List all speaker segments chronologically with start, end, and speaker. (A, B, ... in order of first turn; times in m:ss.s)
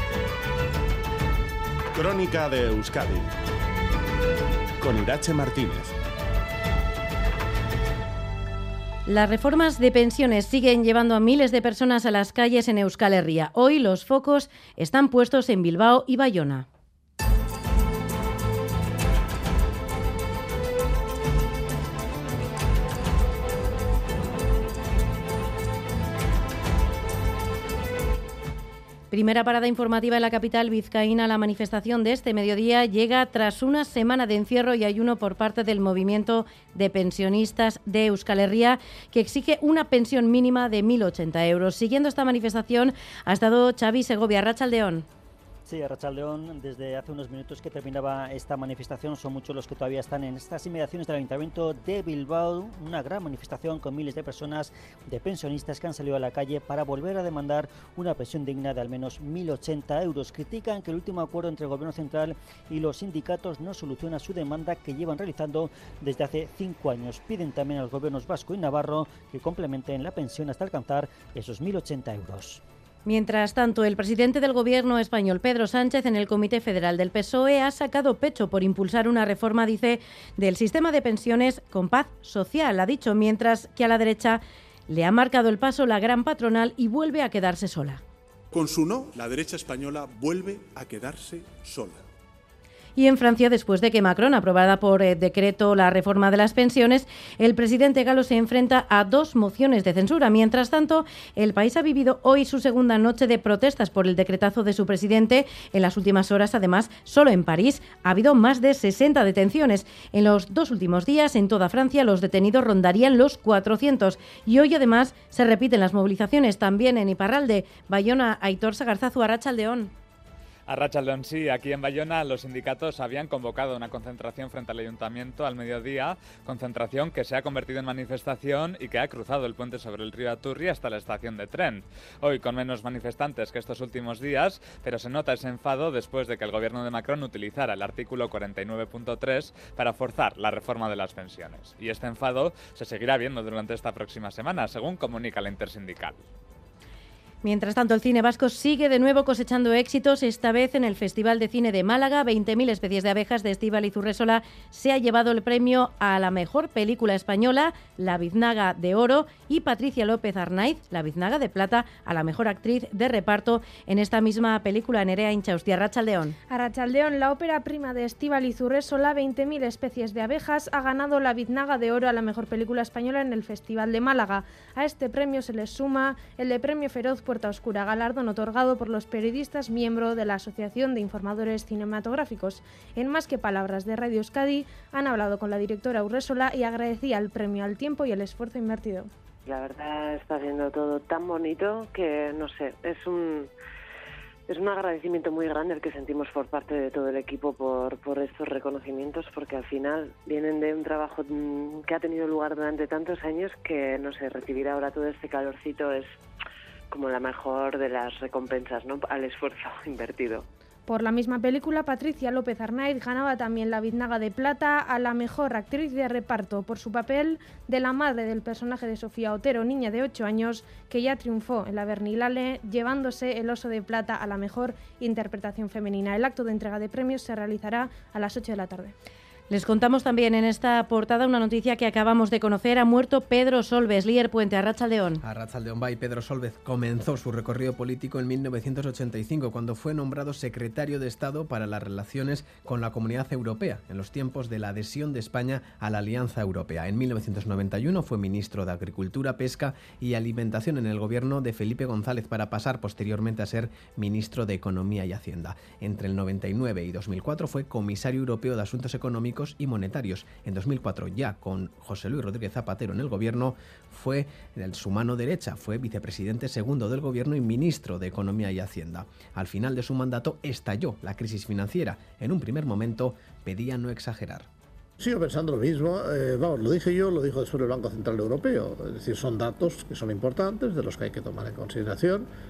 0:01.9-0:03.3 A
0:04.8-0:05.9 A
0:09.1-0:16.6 B
0:29.1-0:45.0 B
0:45.6-1:12.6 C
1:13.0-1:28.0 B
1:28.5-1:32.0 D
1:33.0-1:59.9 B
2:00.7-2:26.2 E
2:27.4-2:46.4 B
2:46.5-3:09.1 F
3:09.4-3:13.5 G
3:14.5-3:26.1 G
3:26.9-3:30.4 G
3:30.9-3:48.9 F
3:49.5-3:55.2 B
3:55.2-4:34.5 H
4:35.0-4:42.3 I